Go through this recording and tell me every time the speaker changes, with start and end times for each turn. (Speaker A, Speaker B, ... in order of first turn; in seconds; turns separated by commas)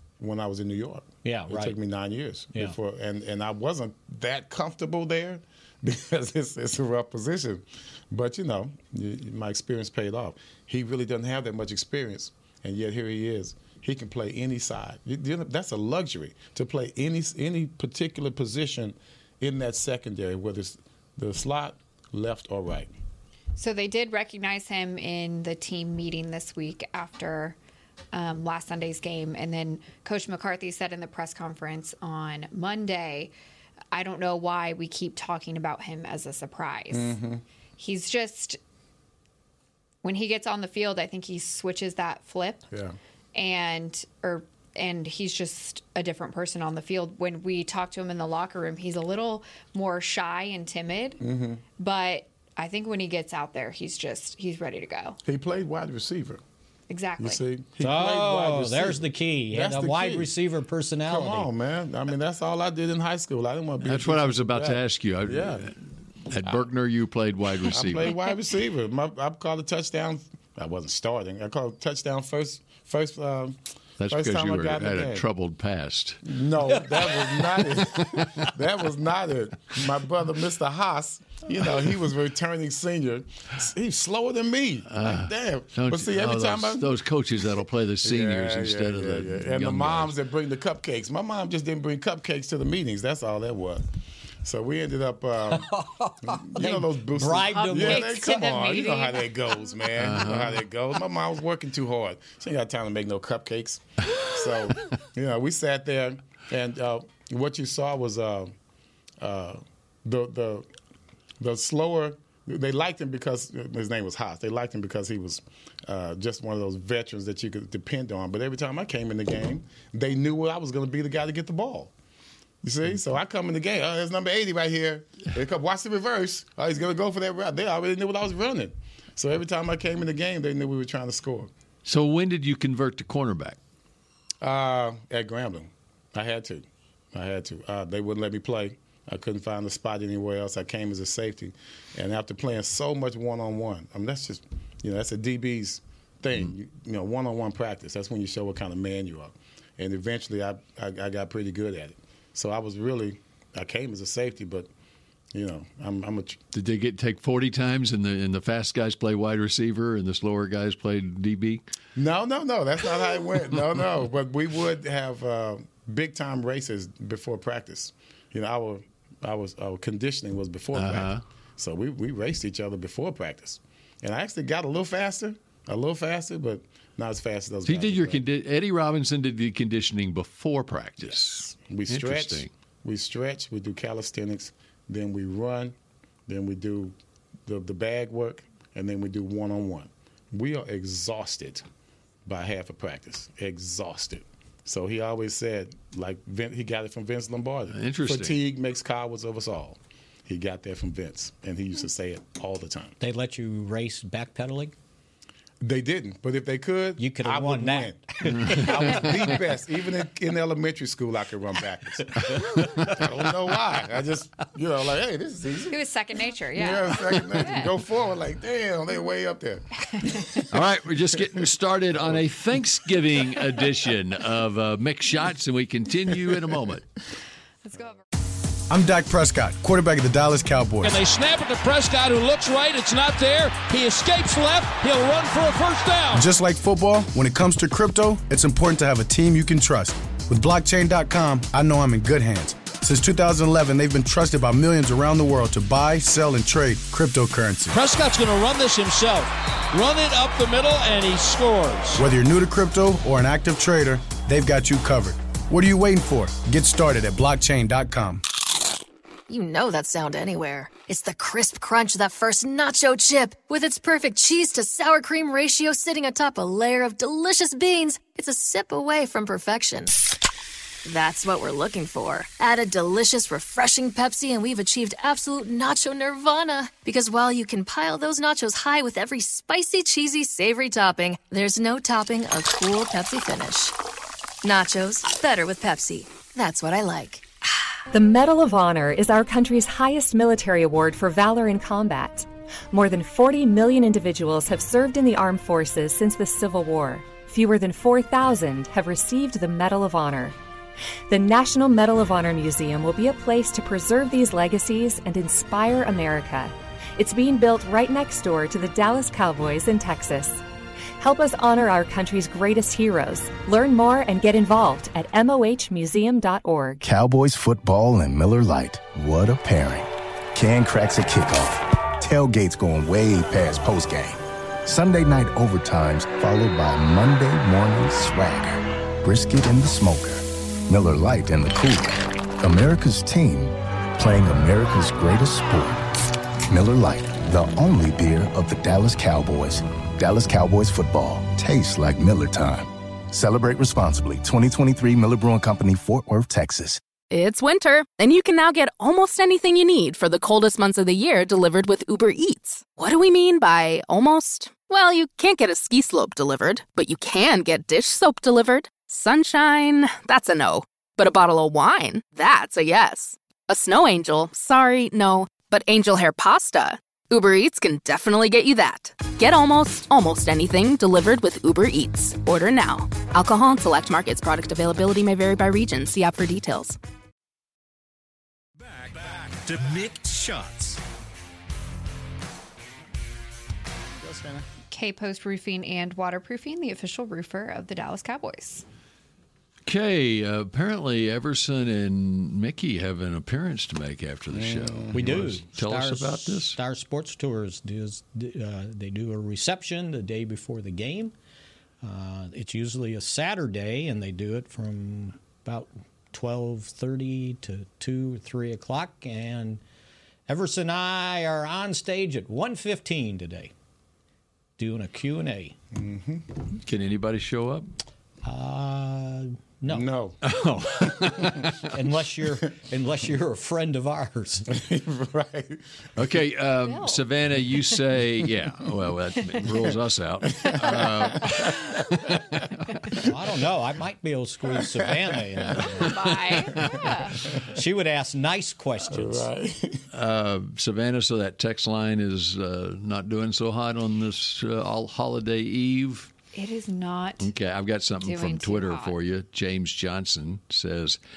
Speaker A: 0.2-22.9, Speaker B: 1.2-1.8, Speaker C: 23.6-27.6, Speaker C: 28.1-33.3, Speaker C: 33.9-37.2, Speaker A: 36.9-37.4, Speaker C: 37.8-38.6, Speaker C: 40.0-42.7, Speaker A: 42.7-43.0, Speaker C: 43.4-51.2, Speaker A: 51.2-51.6, Speaker C: 51.8-55.2, Speaker A: 55.2-56.4, Speaker C: 56.9-57.4, Speaker A: 57.2-60.3, Speaker B: 57.8-61.5, Speaker A: 61.1-65.7, Speaker D: 63.8-68.1, Speaker A: 67.7-75.2, Speaker D: 74.0-76.2, Speaker A: 76.2-86.9, Speaker B: 76.8-77.4, Speaker D: 78.1-78.5, Speaker D: 84.9-90.1, Speaker A: 88.0-93.8, Speaker A: 94.4-95.7, Speaker B: 95.5-98.4, Speaker A: 96.2-108.5, Speaker C: 97.5-99.3, Speaker D: 100.0-100.6, Speaker A: 109.2-110.7, Speaker A: 111.4-121.9, Speaker A: 122.6-131.5, Speaker D: 131.9-133.6, Speaker A: 134.4-154.7, Speaker A: 155.3-156.4, Speaker D: 156.5-161.6, Speaker A: 162.0-178.2, Speaker D: 170.7-171.2, Speaker D: 177.7-182.5, Speaker A: 181.0-185.8, Speaker A: 186.3-186.9, Speaker A: 187.5-191.7, Speaker A: 192.3-203.0, Speaker D: 197.7-198.4, Speaker B: 203.0-204.7, Speaker A: 205.6-215.8, Speaker B: 207.0-209.0, Speaker D: 208.5-208.8, Speaker C: 215.7-217.7, Speaker A: 216.5-220.5, Speaker C: 220.0-220.4, Speaker D: 220.5-226.9, Speaker C: 227.7-228.0, Speaker E: 228.7-230.9, Speaker F: 230.8-236.3, Speaker E: 236.1-247.8, Speaker F: 247.7-252.1, Speaker E: 252.0-258.2, Speaker G: 259.3-269.9, Speaker G: 270.8-283.8, Speaker G: 284.4-287.3, Speaker H: 287.9-300.4, Speaker H: 301.1-310.4, Speaker H: 311.0-316.8, Speaker I: 316.8-335.9, Speaker I: 336.5-346.8, Speaker J: 347.1-376.8, Speaker K: 378.6-380.8, Speaker A: 384.0-384.4, Speaker C: 384.7-388.6, Speaker D: 389.7-396.6, Speaker A: 394.3-395.3, Speaker B: 394.9-401.1, Speaker B: 401.8-409.6, Speaker B: 410.3-413.5, Speaker B: 414.6-415.6, Speaker A: 415.7-416.3, Speaker D: 416.6-417.7, Speaker B: 418.2-419.9, Speaker A: 419.7-420.2, Speaker D: 420.2-421.6, Speaker B: 421.6-424.6, Speaker A: 424.5-425.7, Speaker D: 426.0-432.8, Speaker C: 426.6-427.0, Speaker A: 430.2-432.2, Speaker B: 433.0-436.0, Speaker A: 434.9-435.1, Speaker C: 435.8-437.3, Speaker D: 436.1-436.8, Speaker B: 437.4-439.3, Speaker A: 438.9-439.9, Speaker D: 439.9-446.1, Speaker C: 446.3-447.3, Speaker D: 447.2-451.0, Speaker C: 448.0-448.9